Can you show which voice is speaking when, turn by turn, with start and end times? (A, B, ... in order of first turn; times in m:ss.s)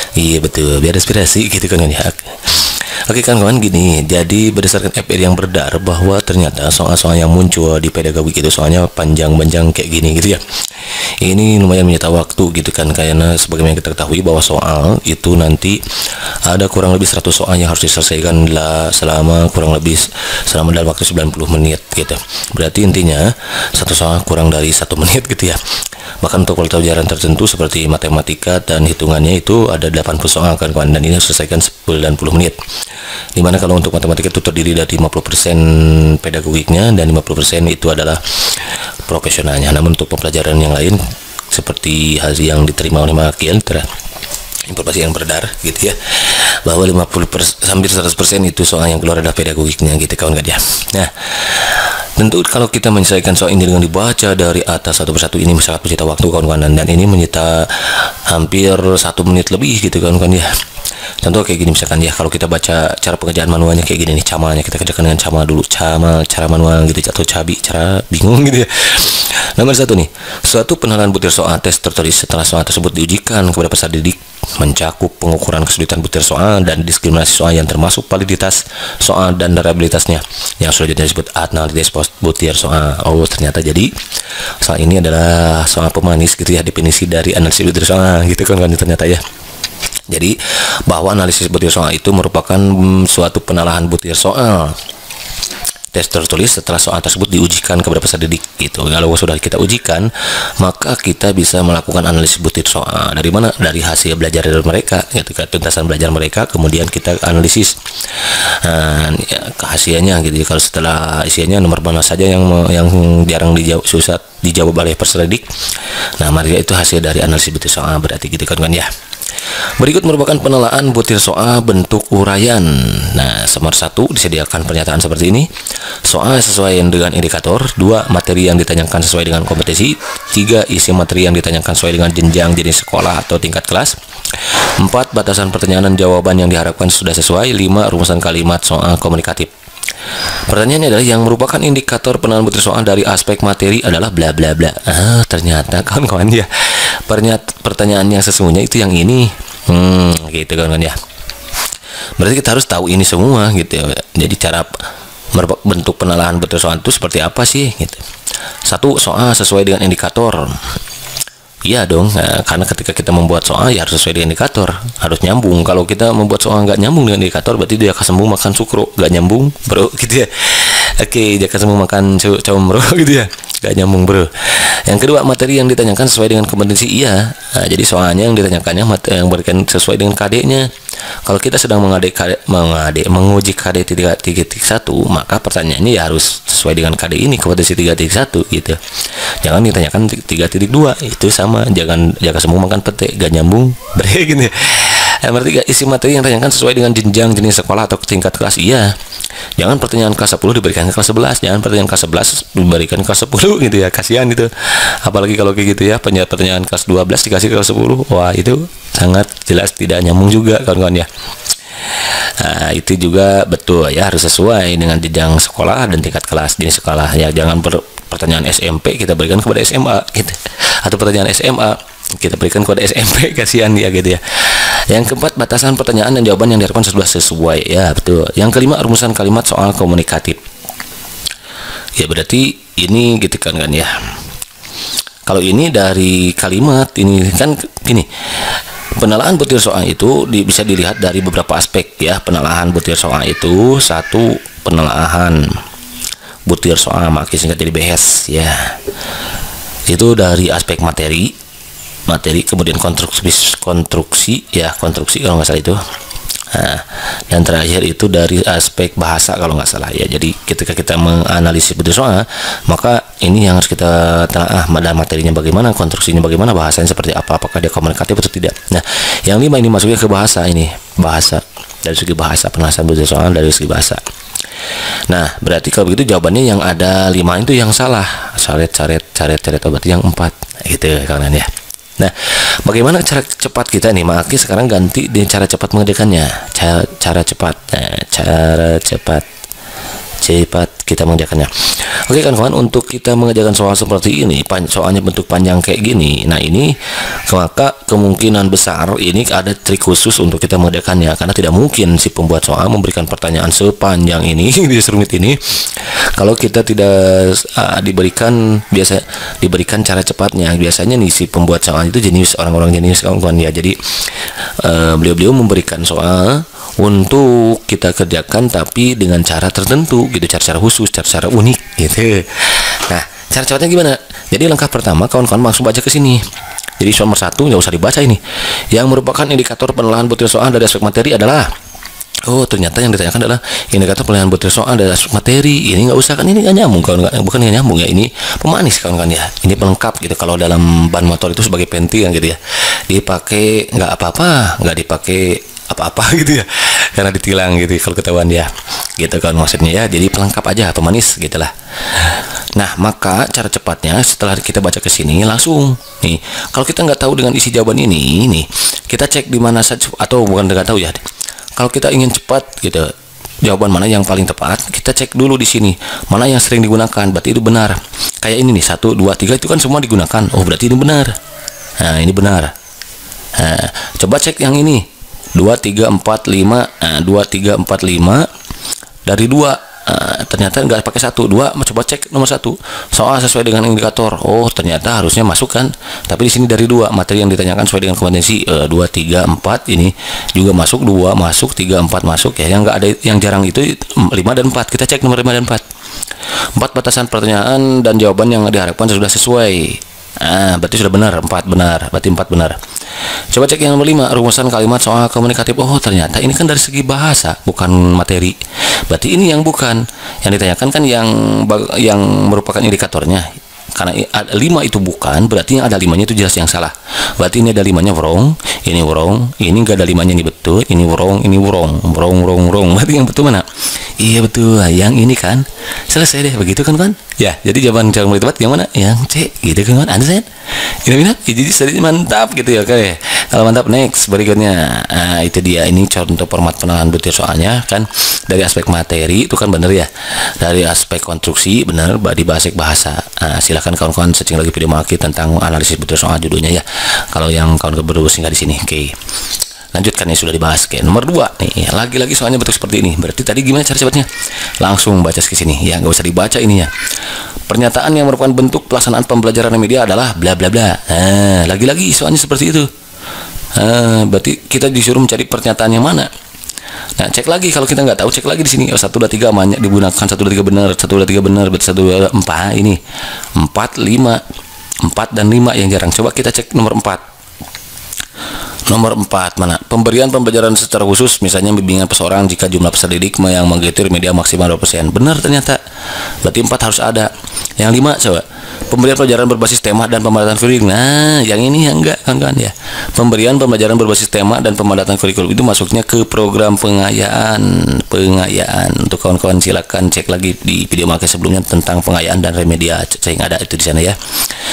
0:00.2-0:10.4 A
0:11.2-0:15.8 A
0:16.4-0:25.6 A
0:26.2-0:32.6 A
0:33.4-0:41.0 A
0:41.5-0:43.9 A
0:44.7-1:00.5 A
1:01.2-1:24.0 A
1:24.6-1:29.2 A
1:30.1-1:34.8 A
1:35.9-1:55.5 A
1:56.2-1:58.9 A
1:59.8-2:05.5 A
2:06.0-2:19.5 A
2:20.5-2:31.0 A
2:32.2-2:34.8 A
2:35.3-2:38.0 A
2:38.6-2:40.6 A
2:41.6-3:00.7 A
3:01.2-3:08.8 A
3:09.4-3:18.9 A
3:19.6-3:31.1 A
3:31.9-3:50.4 A
3:52.0-3:54.1 A
3:55.3-4:05.6 A
4:06.5-4:08.8 A
4:09.9-4:11.4 A
4:12.1-4:15.8 A
4:16.5-4:34.0 A
4:35.1-4:49.3 A
4:50.2-5:26.2 A
5:26.8-5:28.2 A
5:28.7-5:31.5 A
5:32.2-6:01.0 A
6:01.6-6:11.2 A
6:11.8-6:12.5 A
6:13.4-6:18.3 A
6:19.1-6:35.6 A
6:36.6-6:42.6 A
6:43.3-7:29.0 A
7:29.7-7:34.1 A
7:34.6-7:36.7 A
7:37.5-7:42.7 A
7:43.6-7:46.1 A
7:47.0-7:52.8 A
7:53.4-7:54.2 A
7:54.8-7:57.0 A
7:58.7-8:05.6 A
8:06.2-8:24.0 A